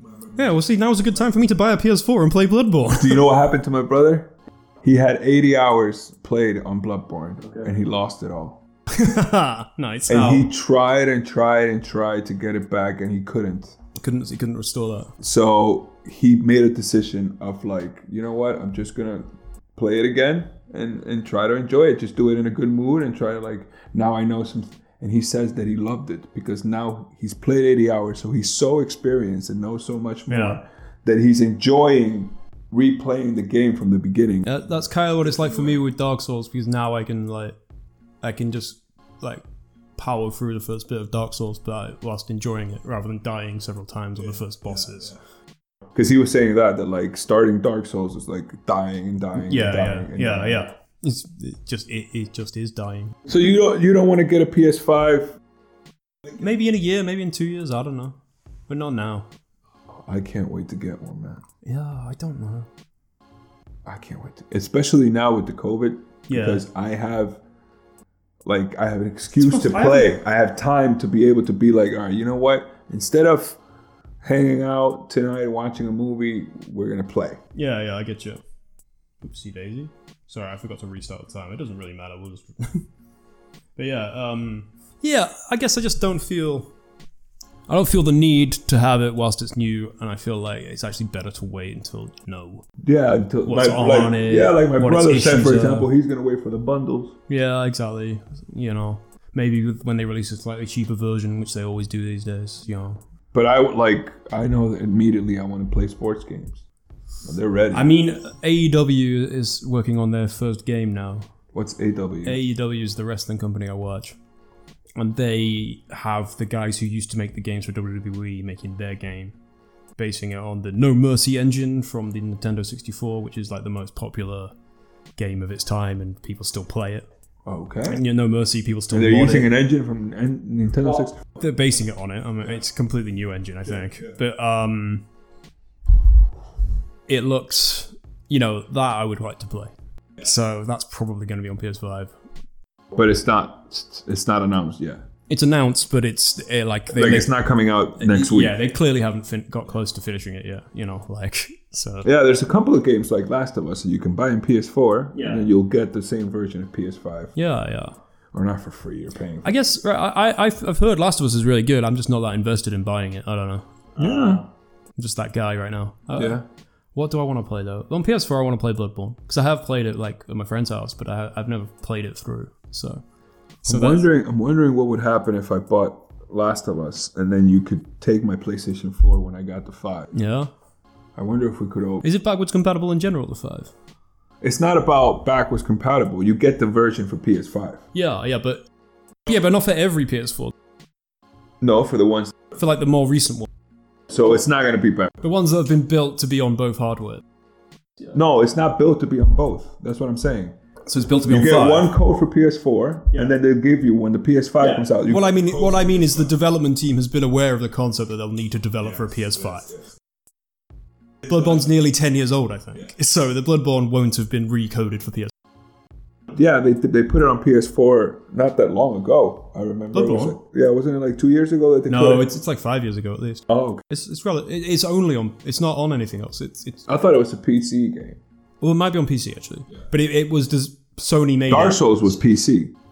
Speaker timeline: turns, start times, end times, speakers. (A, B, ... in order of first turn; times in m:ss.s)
0:00.3-0:03.2 A
0:02.8-0:08.6 B
0:08.9-0:10.5 A
0:10.1-0:13.7 B
0:14.0-0:15.1 A
0:15.2-0:34.6 B
0:30.3-0:30.6 A
0:34.4-0:37.6 A
0:38.2-0:39.4 A
0:40.0-0:45.2 A
0:45.9-0:50.6 B
0:49.4-0:53.2 A
0:53.3-0:55.4 B
0:56.3-0:58.2 A
0:58.7-0:59.3 A
1:00.0-1:01.4 B
1:01.6-1:02.7 A
1:03.8-1:07.4 B
1:06.3-1:06.6 A
1:08.4-1:13.6 B
1:09.3-1:10.2 A
1:14.2-1:17.4 B
1:17.5-1:18.4 A
1:19.2-1:22.8 A
1:23.8-1:26.7 A
1:27.7-1:32.7 A
1:32.8-1:37.1 B
1:33.4-1:35.9 A
1:37.3-1:43.0 A
1:43.3-1:46.6 B
1:47.2-1:47.9 B
1:47.7-1:51.3 A
1:51.5-1:52.4 B
1:52.2-1:54.2 A
1:55.0-1:59.4 A
2:00.0-2:04.5 A
2:05.2-2:07.0 A
2:07.4-2:08.0 B
2:07.9-2:09.5 A
2:08.9-2:11.2 B
2:11.2-2:15.0 A
2:17.1-2:22.2 A
2:22.9-2:25.0 B
2:25.3-2:27.3 A
2:26.9-2:28.6 B
2:28.0-2:32.1 A
2:32.0-2:37.3 B
2:35.2-2:35.4 A
2:37.3-2:37.9 A
2:38.3-2:39.5 B
2:39.4-2:44.4 A
2:44.0-2:44.4 B
2:45.0-2:46.4 A
2:46.2-2:46.4 B
2:46.9-2:53.0 A
2:53.6-2:54.0 A
2:53.6-3:00.1 B
3:00.1-3:00.5 A
3:01.2-3:02.0 B
3:02.0-3:03.7 A
3:04.4-3:07.8 B
3:07.9-3:08.7 A
3:09.2-3:10.5 A
3:11.6-3:12.3 B
3:12.6-3:13.5 A
3:14.1-3:15.1 B
3:15.2-3:17.2 A
3:18.1-3:20.6 B
3:20.9-3:21.9 A
3:21.2-3:26.0 B
3:24.8-3:29.8 A
3:31.2-3:35.3 A
3:36.3-3:42.3 B
3:39.9-3:40.4 A
3:41.9-3:46.9 A
3:43.5-3:43.8 B
3:46.9-3:48.2 B
3:48.6-3:52.2 A
3:51.5-3:52.7 B